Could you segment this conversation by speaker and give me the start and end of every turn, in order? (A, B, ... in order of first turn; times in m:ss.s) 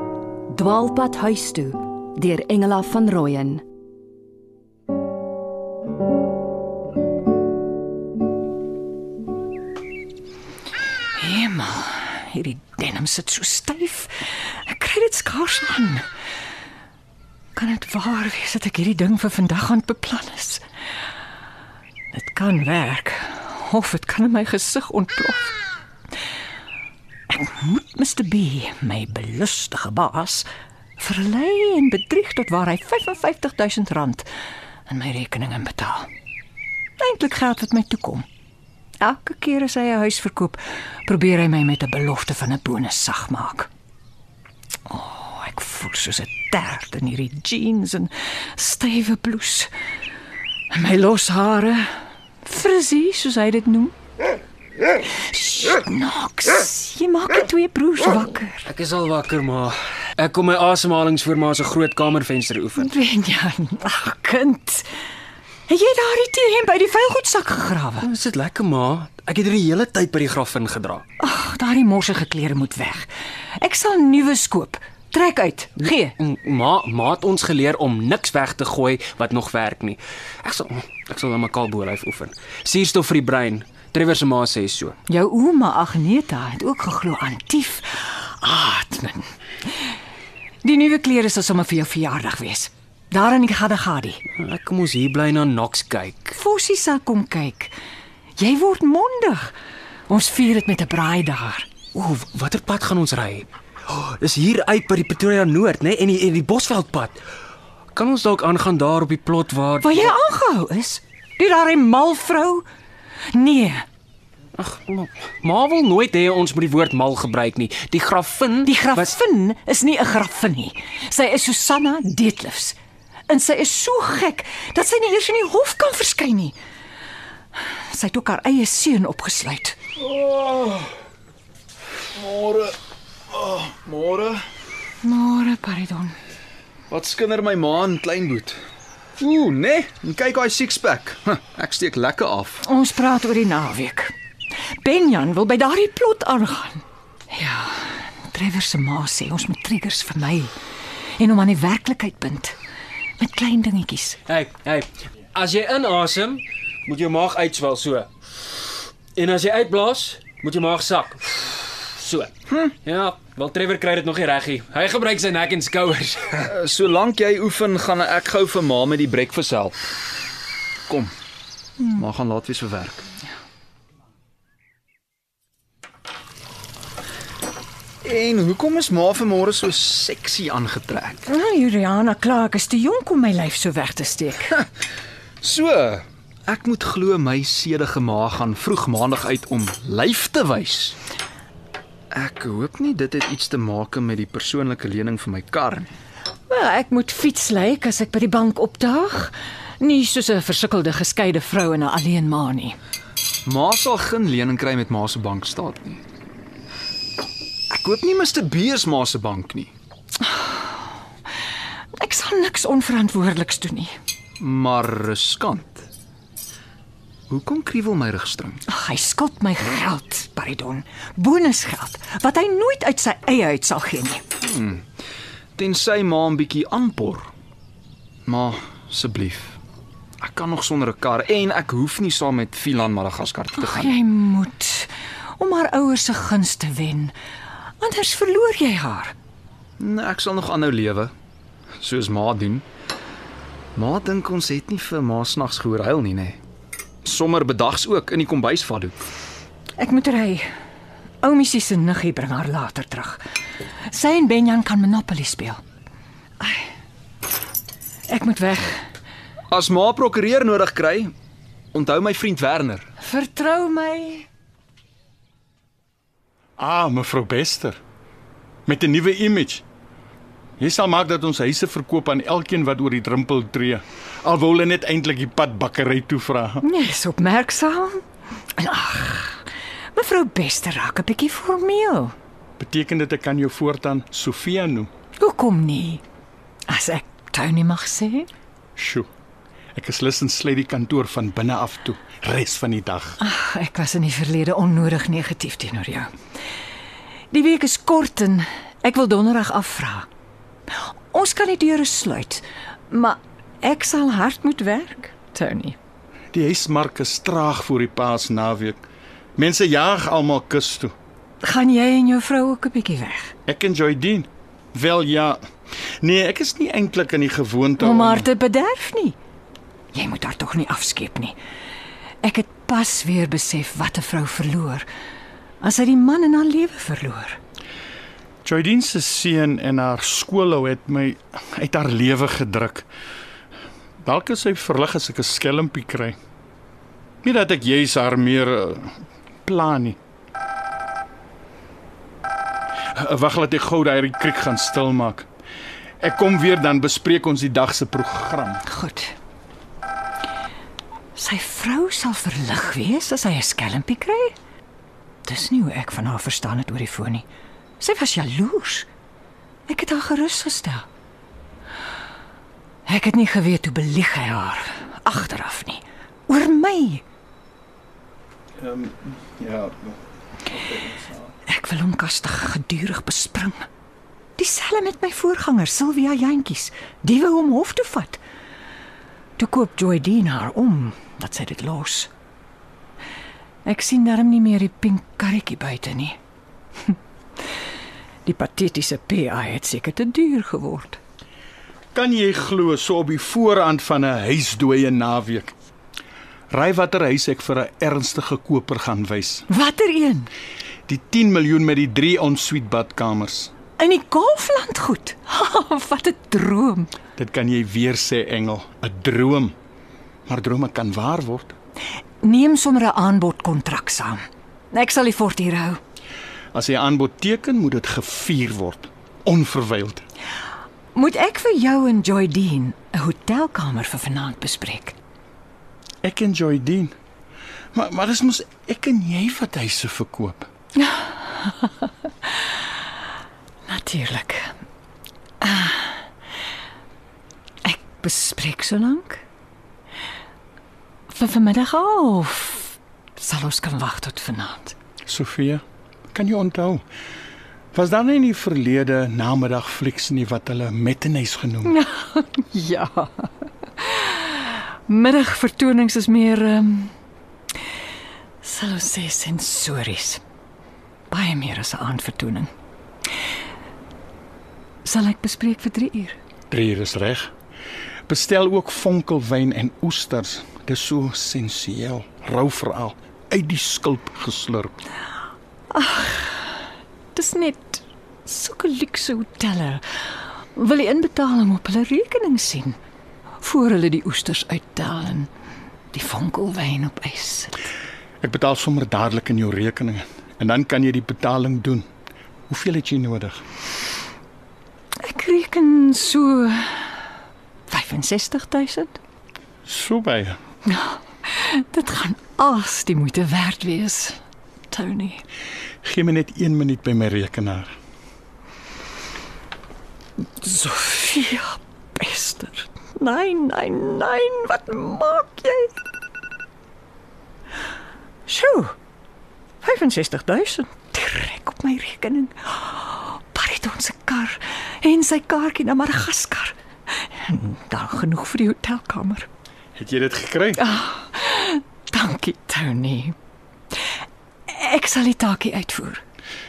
0:00.5-0:03.6 A
0:11.2-0:16.0 B
0:17.6-0:20.6 B
0:22.1-0:25.6 B
0:27.3-0:30.4 B
0:31.0-0:34.3 B
0:34.9-0:36.1 B
0:37.0-0:38.3 B
0:39.0-0:43.7 B
0:44.9-0:49.7 B
0:50.7-0:53.9 B
0:55.0-0:58.7 B
0:58.6-1:02.9 C
1:02.8-1:04.8 B
1:05.7-1:08.1 B
1:08.0-1:11.0 C
1:11.2-1:16.2 B
1:16.2-1:25.0 C
1:25.1-1:29.3 B
1:30.6-1:34.2 B
1:34.4-1:36.4 C
1:36.3-1:37.7 B
1:38.4-1:39.5 B
1:40.1-1:41.7 B
1:41.9-1:47.2 C
1:47.9-1:50.1 C
1:49.8-1:52.6 B
1:53.3-1:53.8 B
1:54.6-1:59.1 C
1:58.6-2:02.8 B
2:03.3-2:06.6 B
2:07.6-2:09.8 B
2:10.0-2:10.9 D
2:12.2-2:12.8 D
2:13.3-2:14.4 D
2:15.0-2:16.2 B
2:16.9-2:18.6 D
2:19.2-2:22.6 D
2:22.6-2:24.1 B
2:24.8-2:30.5 B
2:31.2-2:32.5 B
2:33.2-2:34.2 B
2:34.3-2:38.1 C
2:39.2-2:42.3 C
2:42.8-2:46.5 C
2:46.5-2:49.9 D
2:50.9-2:51.1 D
2:51.8-2:53.1 D
2:58.0-3:01.2 D
3:01.3-3:04.6 B
3:05.4-3:11.0 D
3:12.1-3:15.9 D
3:16.5-3:22.8 B
3:23.5-3:26.0 D
3:27.7-3:29.7 D
3:30.2-3:30.8 B
3:32.0-3:33.9 B
3:34.4-3:35.9 D
3:37.3-3:38.6 D
3:38.7-3:44.2 B
3:44.4-3:44.8 D
3:45.6-3:47.3 D
3:48.2-3:49.6 D
3:50.2-3:54.0 D
3:53.6-3:57.1 B
3:57.8-3:59.1 B
3:59.8-4:01.1 D
4:01.8-4:02.6 D
4:03.8-4:06.4 D
4:07.0-4:09.0 D
4:09.8-4:10.5 B
4:11.2-4:13.2 B
4:13.8-4:15.6 B
4:16.4-4:16.7 B
4:18.1-4:18.8 B
4:19.5-4:21.1 D
4:21.7-4:22.8 D
4:23.0-4:24.3 B
4:26.6-4:27.8 E
4:28.6-4:29.6 E
4:30.6-4:36.6 E
4:36.6-4:38.0 B
4:38.6-4:42.1 B
4:42.6-4:44.9 E
4:45.2-4:46.0 B
4:46.7-4:48.3 B
4:48.8-4:49.1 E
4:49.8-4:53.2 E
4:53.2-4:56.1 B
4:57.3-5:00.1 B
5:01.1-5:05.8 B
5:06.3-5:08.8 E
5:09.4-5:10.9 E
5:11.4-5:13.3 B
5:13.5-5:15.4 E
5:16.0-5:18.3 E
5:17.8-5:19.2 B
5:19.9-5:21.4 B
5:22.2-5:24.8 B
5:25.6-5:27.4 B
5:28.4-5:32.9 E
5:34.0-5:36.2 E
5:37.2-5:40.0 E
5:42.9-5:45.3 E
5:46.0-5:48.6 E
5:48.6-5:49.1 B
5:51.1-5:54.3 B
5:55.2-5:57.2 B
5:57.8-5:58.8 B
5:59.7-6:00.9 B
6:02.8-6:07.0 B
6:08.6-6:10.0 E
6:10.5-6:11.0 E
6:11.4-6:13.7 B
6:14.4-6:18.2 B
6:19.4-6:22.1 B
6:23.6-6:26.2 B
6:28.2-6:31.0 B
6:31.9-6:35.5 E
6:36.5-6:39.5 E
6:39.5-6:40.3 B
6:40.9-6:43.5 E
6:43.8-6:46.9 B
6:47.2-6:49.5 E
6:50.3-6:51.5 E
6:52.2-6:54.2 B
6:54.7-6:55.8 B
6:56.5-7:00.0 E
7:00.9-7:05.0 B
7:06.0-7:06.9 E
7:07.7-7:10.5 E
7:10.8-7:11.8 B
7:13.7-7:14.6 B
7:15.4-7:16.1 B
7:17.6-7:19.2 B
7:21.1-7:24.8 B
7:25.1-7:26.8 E
7:27.7-7:31.8 E
7:31.6-7:36.9 B
7:38.4-7:40.2 B
7:41.1-7:42.5 B
7:44.8-7:46.2 B
7:46.5-7:47.3 E
7:48.1-7:54.7 E
7:55.7-7:56.6 B
7:57.1-8:00.0 B
8:00.5-8:02.8 B
8:03.4-8:05.3 B
8:05.9-8:07.6 B
8:08.2-8:11.9 E
8:12.5-8:13.4 E
8:15.0-8:17.0 B
8:17.7-8:19.0 B
8:19.7-8:20.4 E
8:20.7-8:24.2 B
8:24.7-8:25.2 B
8:25.8-8:27.7 E
8:30.4-8:35.7 B
8:38.3-8:38.7 B
8:39.6-8:49.3 B
8:49.8-8:50.6 E
8:50.6-8:53.1 B
8:54.5-8:56.0 B